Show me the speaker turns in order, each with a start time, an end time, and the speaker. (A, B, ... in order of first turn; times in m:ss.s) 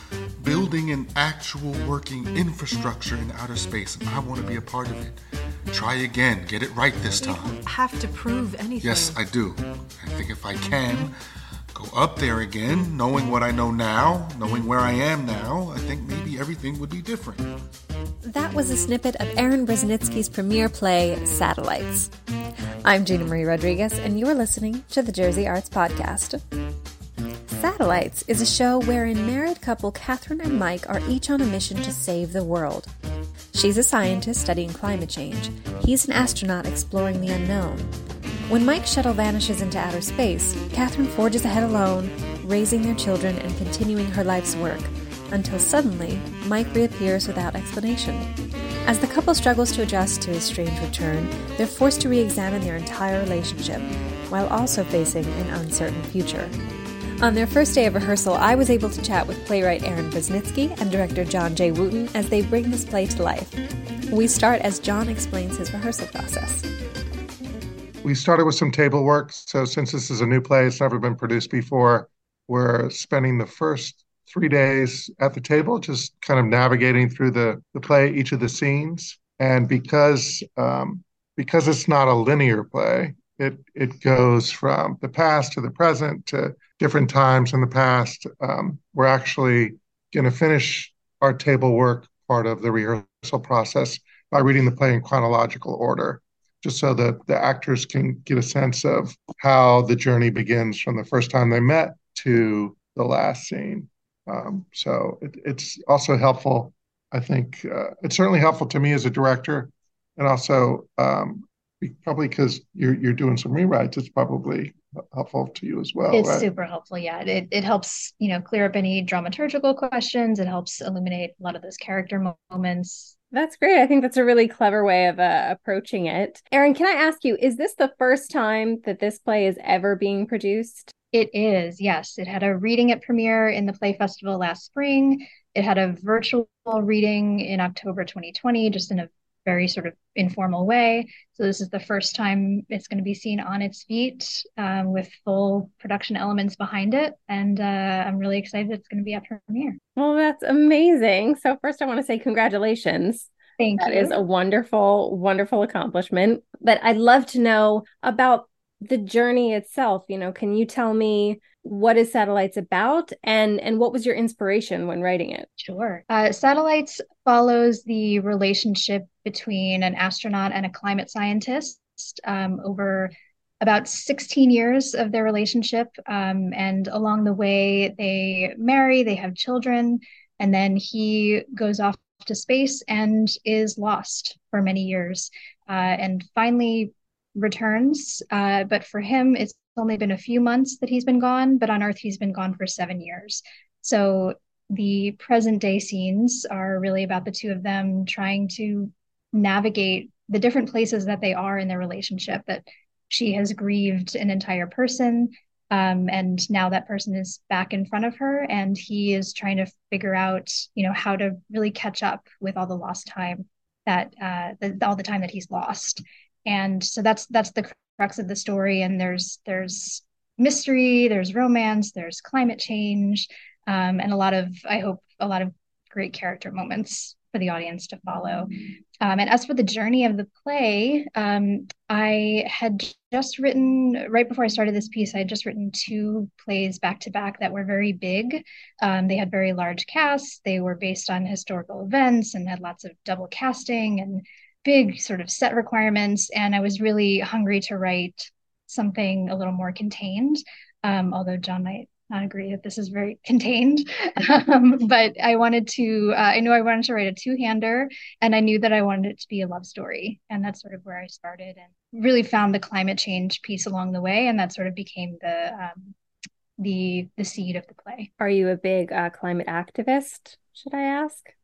0:00.4-0:05.2 A
0:05.7-0:07.6 A
0:07.2-0:09.2 B
0:08.8-0:11.1 A
0:11.7-0:17.5 A
0:18.2-0:22.1 C
0:22.8-0:26.4 C
0:27.5-0:32.9 C
0:33.5-0:37.9 C
0:38.5-0:48.2 C
0:48.8-0:56.5 C
0:57.2-1:03.5 C
1:04.1-1:06.6 C
1:08.0-1:56.5 D
1:56.1-2:03.1 E
2:03.3-2:10.9 F
2:11.1-2:29.8 E
2:30.0-2:45.5 F
2:33.6-2:34.2 E
2:45.6-4:25.9 E
4:26.6-4:28.1 E
4:28.2-4:31.3 F